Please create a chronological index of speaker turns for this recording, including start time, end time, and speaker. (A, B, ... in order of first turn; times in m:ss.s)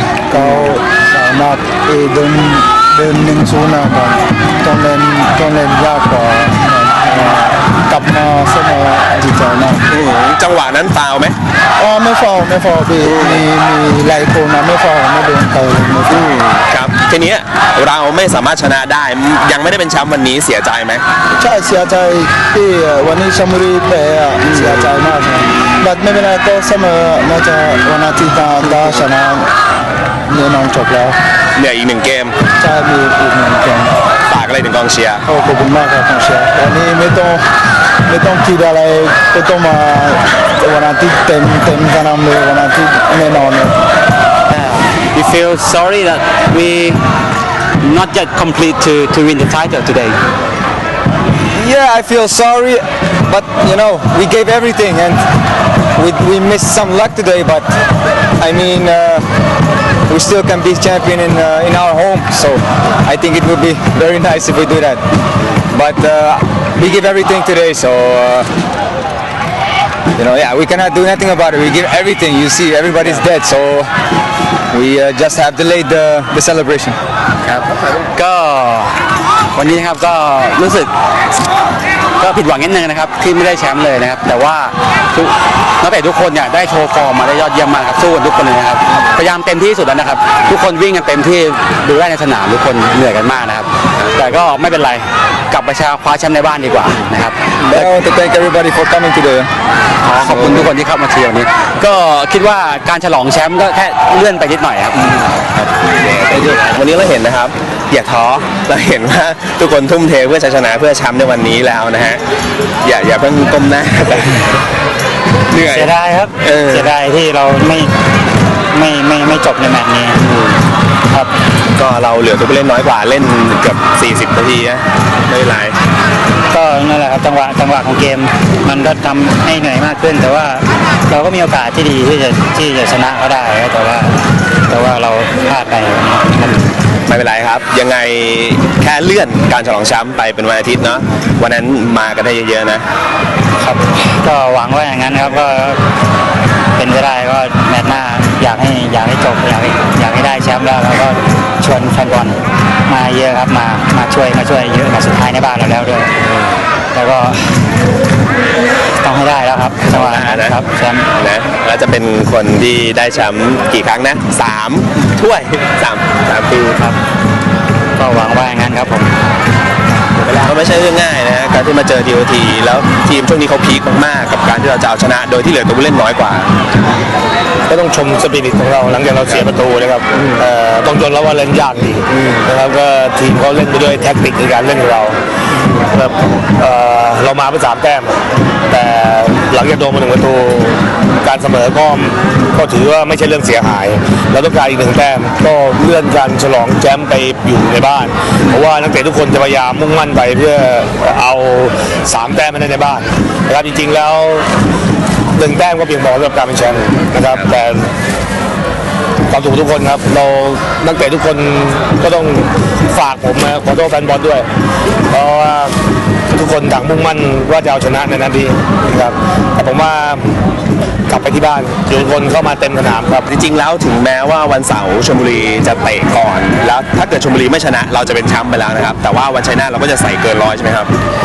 0:00.3-0:09.9 A
0:09.9-0:11.4 B
0:11.8-0:16.3 A
0:16.1-0:21.0 B
0:21.4-0:29.5 A
0:30.3-0:31.2 A
0:31.5-0:32.4 B
0:32.5-0:33.9 A
0:34.2-0:35.2 B
0:35.2-0:37.4 A
0:38.1-0:43.7 A
0:44.5-0:47.0 C
0:47.8-0:50.2 C
0:51.5-0:55.2 D
0:56.0-0:57.8 D
0:58.4-0:59.2 D
1:00.1-1:05.0 D
1:05.7-1:08.5 D
1:10.2-1:13.9 D
1:14.7-1:17.0 D
1:17.4-1:19.0 C
1:19.5-1:20.9 C
1:22.2-1:37.4 C
1:37.6-1:39.5 D
1:40.0-1:45.1 C
1:40.3-1:40.7 D
1:45.9-1:52.2 B
1:52.8-1:54.3 B
1:55.5-1:55.9 B
1:55.6-1:57.9 E
1:56.4-1:56.8 B
1:58.7-2:00.2 E
2:01.8-2:05.8 B
2:06.5-2:14.2 E
2:14.7-2:16.6 E
2:17.1-2:22.8 B
2:23.6-2:25.8 E
2:26.8-2:36.1 E
2:36.9-2:37.5 E
2:39.0-2:41.1 E
2:39.8-2:40.6 B
2:41.1-2:46.8 B
2:48.0-2:49.1 E
2:50.2-2:56.5 B
2:57.7-3:24.5 F
3:25.3-3:27.9 F
3:29.3-3:34.5 F
3:35.1-3:35.8 F
3:36.3-3:40.2 F
3:41.1-3:43.3 F
3:43.3-3:50.9 B